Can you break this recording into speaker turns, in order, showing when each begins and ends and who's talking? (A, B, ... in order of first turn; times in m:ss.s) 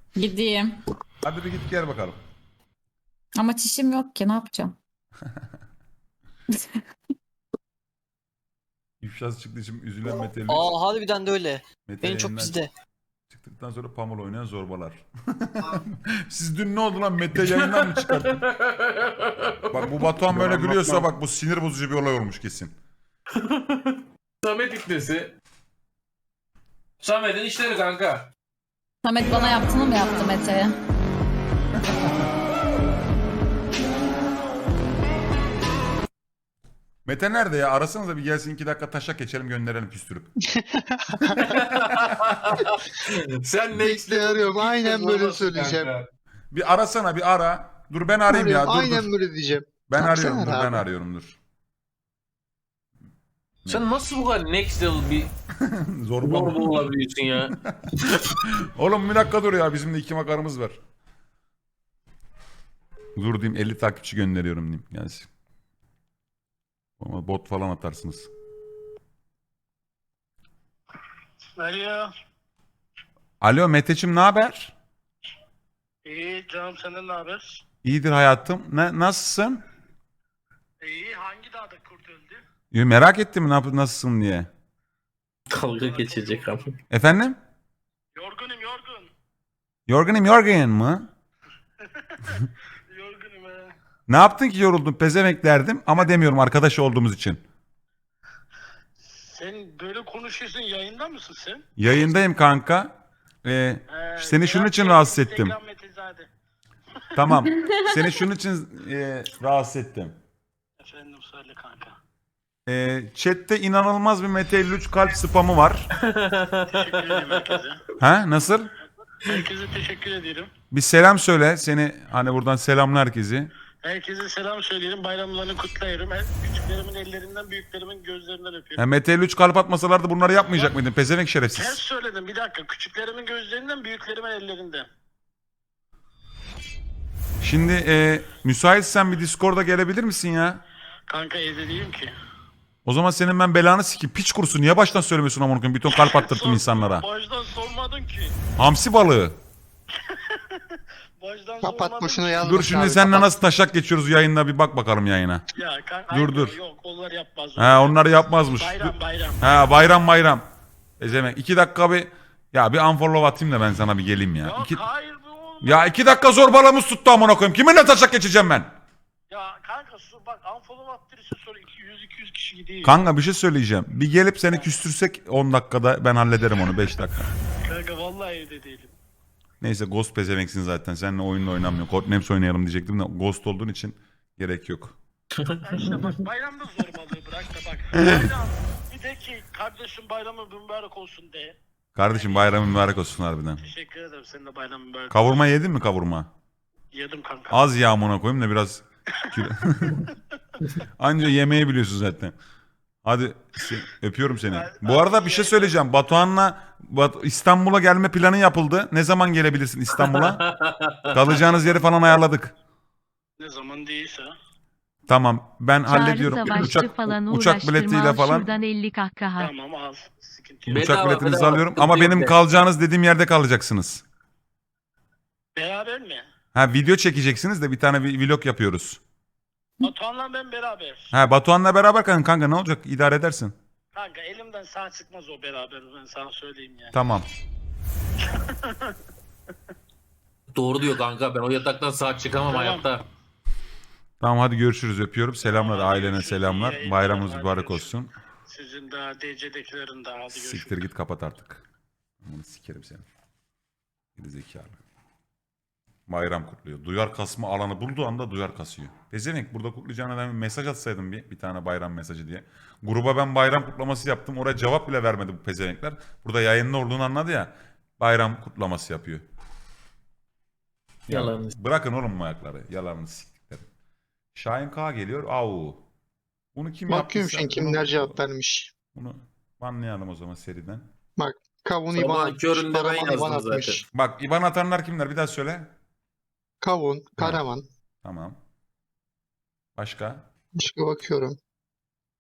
0:00.2-0:00.8 A
0:01.2-0:02.2 B
0:03.4-0:04.8 A
0:06.5-0:06.8 A
0:09.0-0:10.8 B
0:10.5-0:12.7 C
0:11.8-0:12.6 B
0:13.3-0:18.4 B
0:17.4-0:20.4 D
0:19.7-0:22.7 B
0:23.3-0:25.3 D
0:27.0-0:28.3 D
0:29.0-0:30.8 A
0:37.0-0:40.3 B
0:40.5-0:41.7 E
0:41.4-0:46.0 D
0:43.7-0:45.9 E
0:46.5-0:49.1 B
0:48.3-0:50.9 E
0:49.9-0:51.4 B
0:53.7-0:55.3 D
0:55.6-0:56.7 B
0:56.2-0:57.5 D
0:57.7-1:00.8 B
1:03.2-1:05.3 B
1:07.0-1:08.3 B
1:11.6-1:12.1 F
1:13.4-1:14.7 B
1:16.0-1:17.6 F
1:17.8-1:19.6 B
1:20.8-1:22.4 F
1:22.7-1:24.5 B
1:25.5-1:26.7 D
1:25.7-1:26.7 F
1:26.9-1:27.4 B
1:28.1-1:29.1 F
1:29.9-1:31.1 B
1:32.2-1:33.7 F
1:34.1-1:37.4 B
1:39.3-1:41.6 F
1:41.8-1:45.5 B
1:43.9-1:46.3 F
1:47.1-1:50.2 B
1:50.8-1:52.0 F
1:52.7-1:55.9 B
1:56.1-1:57.4 D
1:56.7-1:57.8 F
1:58.0-1:58.7 B
1:59.3-2:00.5 F
2:00.7-2:03.5 B
2:03.8-2:08.8 F
2:08.8-2:11.8 B
2:11.5-2:14.9 F
2:17.4-2:20.6 B
2:21.1-2:22.1 F
2:22.8-2:27.0 B
2:26.1-2:28.3 F
2:28.6-2:29.4 B
2:30.1-2:30.6 F
2:31.2-2:32.4 F
2:31.6-2:33.3 E
2:32.4-2:35.4 B
2:35.5-2:37.9 F
2:36.1-2:36.6 B
2:37.6-2:40.5 B
2:38.6-2:39.7 F
2:41.0-2:44.8 B
2:44.4-2:45.8 F
2:45.6-2:48.7 B
2:49.3-2:52.9 F
2:52.8-2:57.3 B
2:57.7-2:58.9 F
2:59.6-3:05.0 B
3:05.4-3:05.9 D
3:05.6-3:11.6 F
3:12.0-3:13.6 B
3:12.1-3:12.5 F
3:13.6-3:15.3 F
3:15.1-3:16.3 B
3:16.9-3:17.5 F
3:17.5-3:20.0 B
3:21.0-3:22.3 B
3:23.0-3:30.4 B
3:24.5-3:25.7 F
3:30.0-3:31.0 D
3:31.1-3:32.6 B
3:33.4-3:34.3 F
3:35.1-3:38.5 B
3:35.9-3:39.5 G
3:39.4-3:40.9 F
3:40.7-3:42.4 D
3:40.8-3:44.0 B
3:45.6-3:46.2 F
3:46.5-3:49.0 B
3:49.8-3:51.1 F
3:51.1-3:53.5 B
3:53.9-3:56.9 F
3:56.9-3:57.3 B
3:58.2-3:58.9 F
4:00.5-4:03.0 D
4:02.5-4:02.8 F
4:04.2-4:08.1 B
4:05.4-4:07.9 F
4:08.5-4:10.8 F
4:10.3-4:11.6 B
4:12.2-4:13.0 B
4:14.2-4:14.8 B
4:16.1-4:29.2 B
4:31.1-4:33.7 B
4:31.1-4:31.5 D
4:34.3-4:35.8 B
4:36.5-4:38.2 B
4:36.9-4:38.7 E
4:38.9-4:40.9 B
4:41.2-4:43.8 E
4:41.9-4:43.8 D
4:43.9-4:45.7 B
4:46.6-4:47.6 E
4:48.0-4:48.4 B
4:49.8-4:50.2 B
4:50.6-4:51.4 E